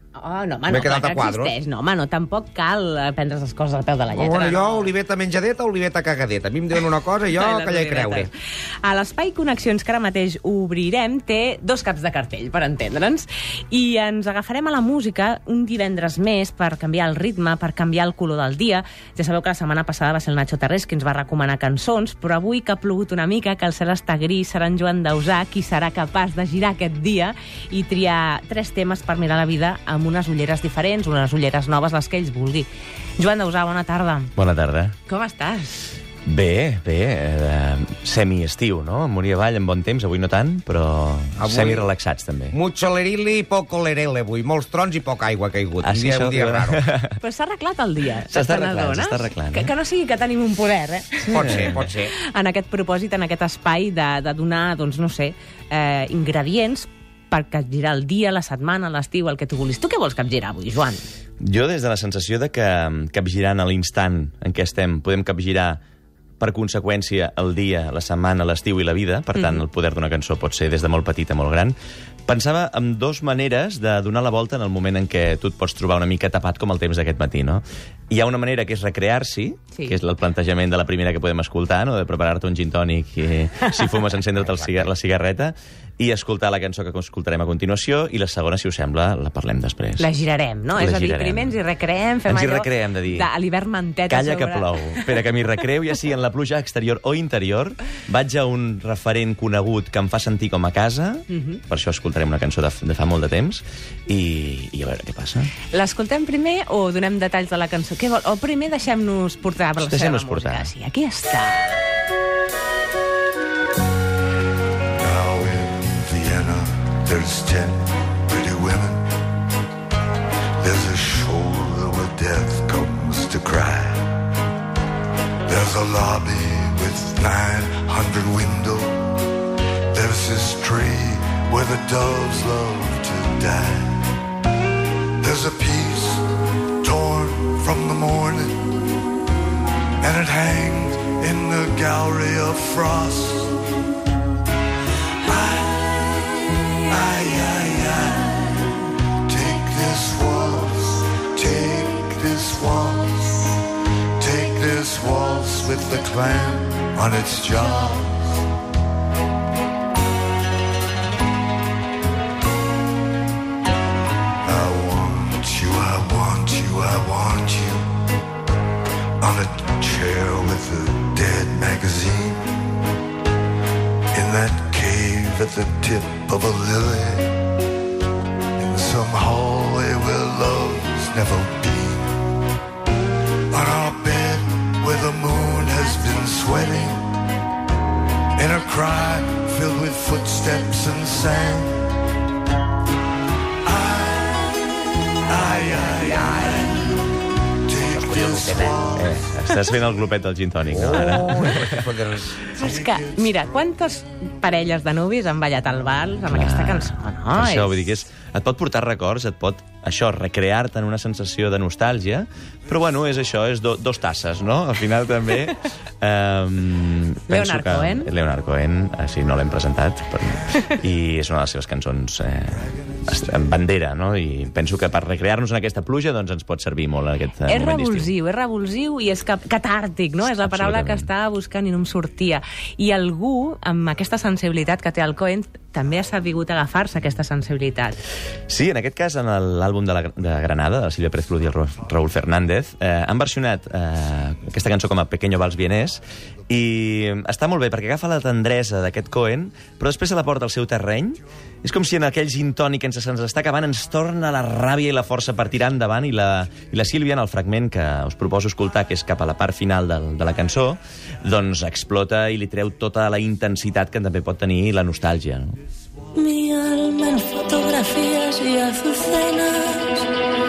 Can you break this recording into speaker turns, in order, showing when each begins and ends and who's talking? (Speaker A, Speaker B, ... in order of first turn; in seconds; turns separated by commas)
Speaker A: 0.2-4.9, Speaker B: 0.7-1.6, Speaker B: 4.1-8.3, Speaker A: 7.3-34.3, Speaker C: 34.4-35.0, Speaker A: 35.1-35.8, Speaker C: 36.3-42.6, Speaker B: 41.4-41.9, Speaker B: 42.5-46.8, Speaker C: 45.8-47.2, Speaker A: 47.2-61.0, Speaker C: 48.3-49.7, Speaker B: 51.3-52.1, Speaker C: 51.4-51.8, Speaker C: 61.4-65.8, Speaker C: 66.4-71.8, Speaker A: 69.3-69.6, Speaker C: 72.3-90.1, Speaker A: 90.0-95.3, Speaker C: 90.8-91.6, Speaker C: 92.3-93.3, Speaker C: 94.1-105.5, Speaker A: 101.3-101.6, Speaker A: 105.7-111.8, Speaker C: 109.8-110.7, Speaker D: 115.0-119.0, Speaker D: 120.6-124.1, Speaker D: 125.5-129.2, Speaker D: 129.9-134.1, Speaker D: 135.2-136.3, Speaker D: 136.8-138.8, Speaker D: 140.0-143.6, Speaker D: 145.2-146.1, Speaker D: 146.8-148.7, Speaker D: 149.2-153.6, Speaker D: 154.2-158.4, Speaker D: 164.4-167.9, Speaker D: 169.2-172.6, Speaker D: 174.1-177.4, Speaker D: 178.6-182.2, Speaker D: 183.5-187.1, Speaker D: 188.4-191.9, Speaker D: 193.6-194.3, Speaker D: 195.3-197.0, Speaker D: 197.6-199.2, Speaker B: 197.9-198.8, Speaker C: 198.9-201.9, Speaker B: 200.7-202.4, Speaker D: 202.4-203.6, Speaker A: 202.6-207.8, Speaker C: 206.3-228.1, Speaker A: 217.3-218.1, Speaker A: 227.5-238.0, Speaker C: 230.4-231.1, Speaker C: 238.5-265.6, Speaker E: 266.2-270.1